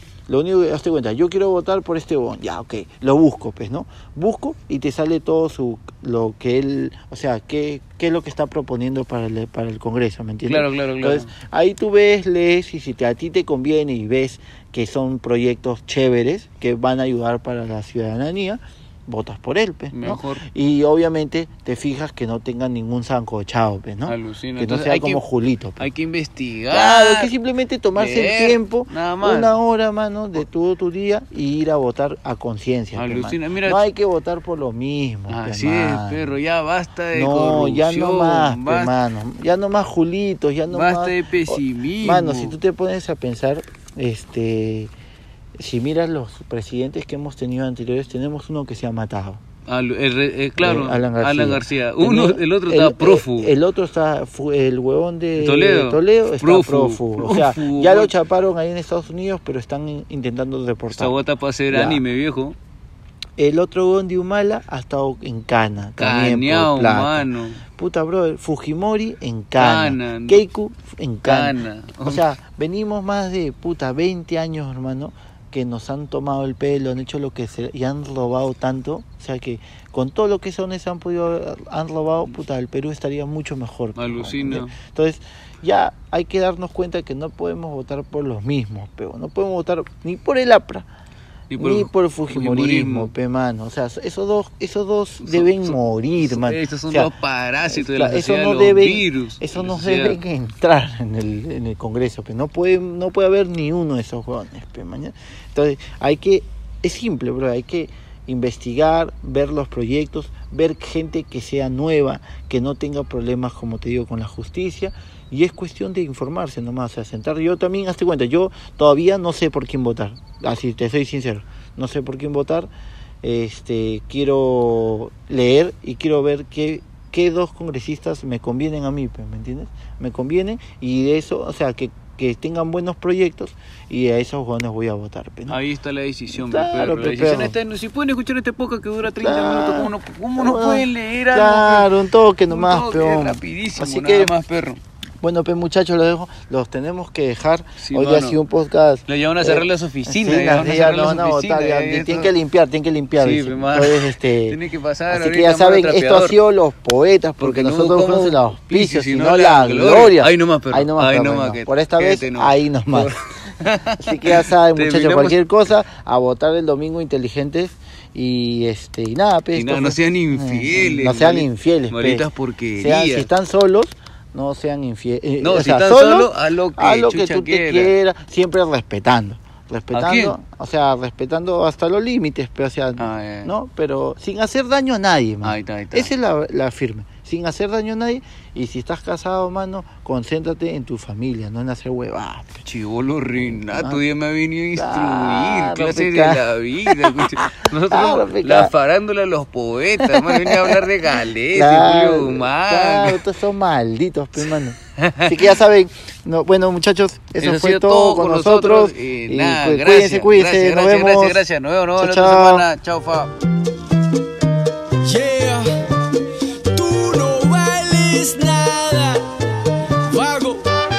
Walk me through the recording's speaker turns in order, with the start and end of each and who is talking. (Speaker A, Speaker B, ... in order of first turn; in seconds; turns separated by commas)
Speaker A: 0.3-25.9, Speaker B: 10.5-11.3, Speaker B: 19.9-20.4, Speaker B: 24.1-25.2, Speaker B: 25.8-27.3, Speaker A: 26.7-36.3, Speaker B: 27.9-29.6, Speaker B: 33.0-33.8, Speaker B: 35.3-39.0, Speaker A: 37.1-44.9, Speaker B: 40.7-42.6, Speaker A: 45.6-49.4, Speaker B: 49.7-53.5, Speaker A: 50.6-61.2, Speaker B: 55.4-58.1, Speaker B: 60.9-62.6, Speaker A: 61.7-62.0, Speaker A: 63.4-90.9, Speaker B: 66.0-67.6, Speaker B: 69.6-70.4, Speaker B: 71.2-72.2, Speaker B: 84.0-84.8, Speaker B: 91.5-93.1, Speaker A: 91.6-97.1, Speaker B: 95.2-100.2, Speaker A: 97.7-122.7, Speaker A: 123.2-135.6, Speaker B: 135.5-141.9, Speaker A: 136.3-137.6, Speaker A: 139.1-144.4, Speaker B: 142.5-144.8, Speaker A: 145.2-154.6, Speaker B: 147.8-148.4, Speaker B: 149.1-152.3, Speaker B: 153.2-156.4, Speaker A: 155.1-163.2, Speaker B: 157.4-165.4, Speaker A: 164.0-172.3, Speaker B: 169.5-173.3, Speaker A: 172.8-192.6, Speaker B: 175.4-177.9, Speaker B: 179.9-180.4, Speaker B: 183.0-183.5, Speaker B: 185.4-186.1, Speaker B: 192.6-203.2, Speaker A: 193.5-194.0, Speaker A: 194.8-198.7, Speaker A: 200.0-200.9, Speaker A: 201.5-211.4, Speaker B: 205.0-205.5, Speaker B: 207.4-213.3, Speaker A: 212.0-212.7, Speaker C: 215.0-215.9, Speaker C: 216.7-219.3, Speaker C: 220.0-220.7